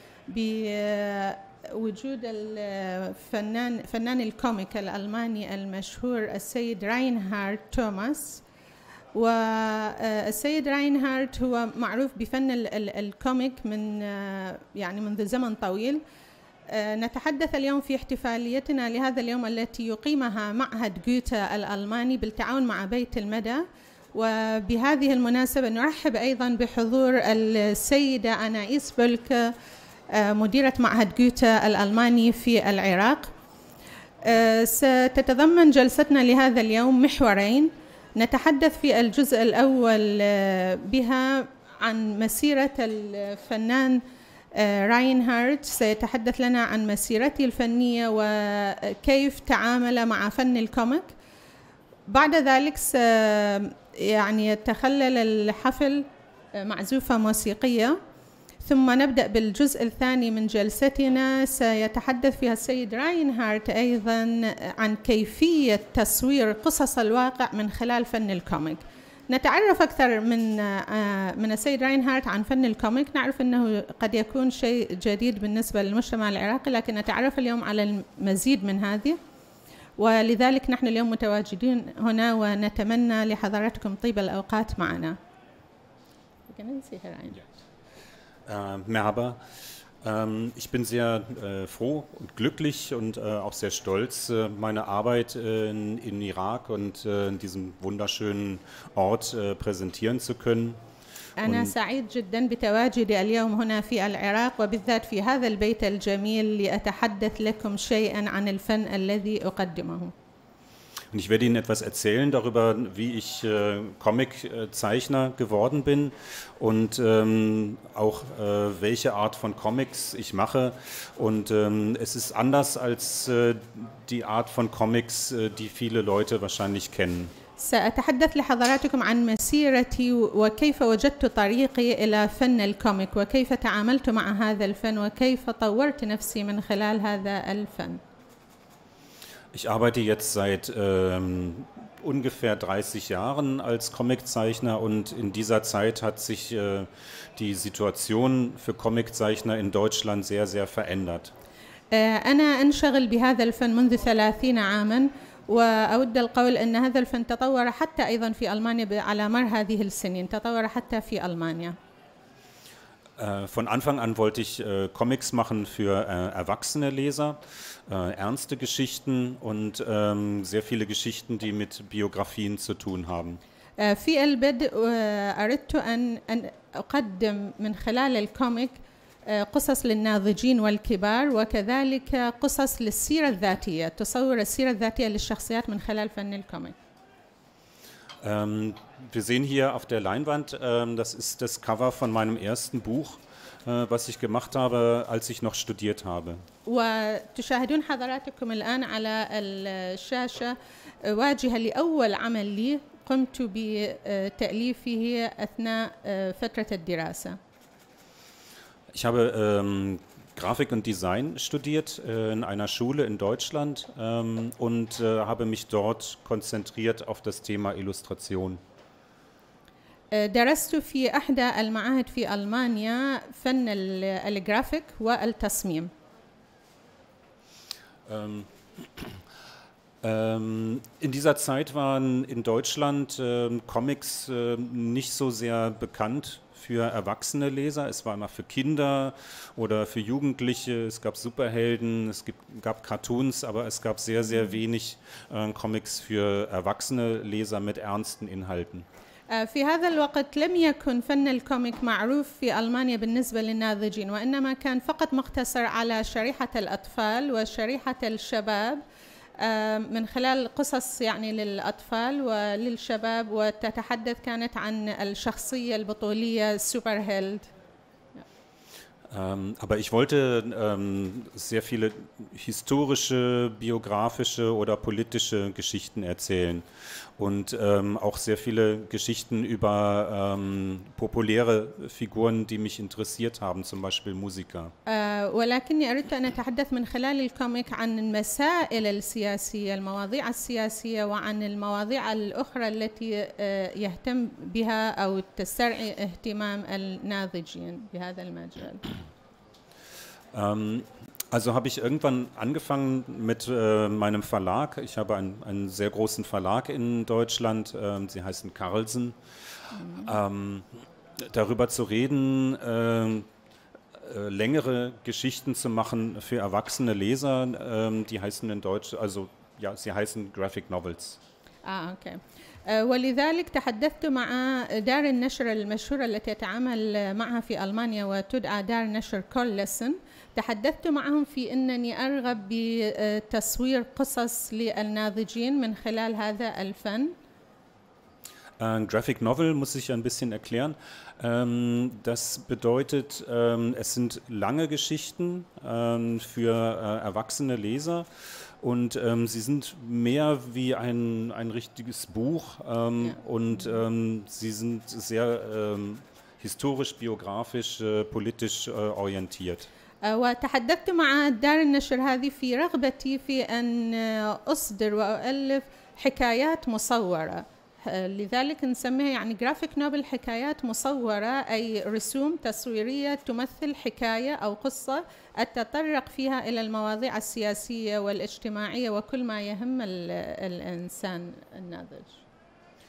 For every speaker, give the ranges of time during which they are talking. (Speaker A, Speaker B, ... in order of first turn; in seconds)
Speaker A: 0.3-8.4, 9.1-16.0, 16.7-29.5, 30.1-33.3, 34.2-44.0, 44.5-51.1, 52.1-58.0, 58.6-79.2, 80.0-85.2, 86.5-87.4, 101.4-110.1, 127.6-138.0, 151.9-161.8, 173.8-186.8, 196.7-207.4, 220.1-225.9, 249.3-258.8, 259.4-267.5, 284.9-298.9, 309.7-310.1, 321.6-337.1, 360.0-382.2
Speaker B: 88.5-89.4, 90.0-100.8, 101.4-101.7, 111.1-127.3, 139.5-151.3, 163.2-173.4, 188.2-196.4, 208.9-218.6, 228.1-229.2, 230.0-248.8, 269.1-276.6, 277.2-284.7, 300.3-309.2, 310.0-310.6, 311.2-313.3, 313.9-321.2, 338.6-348.1, 348.6-359.7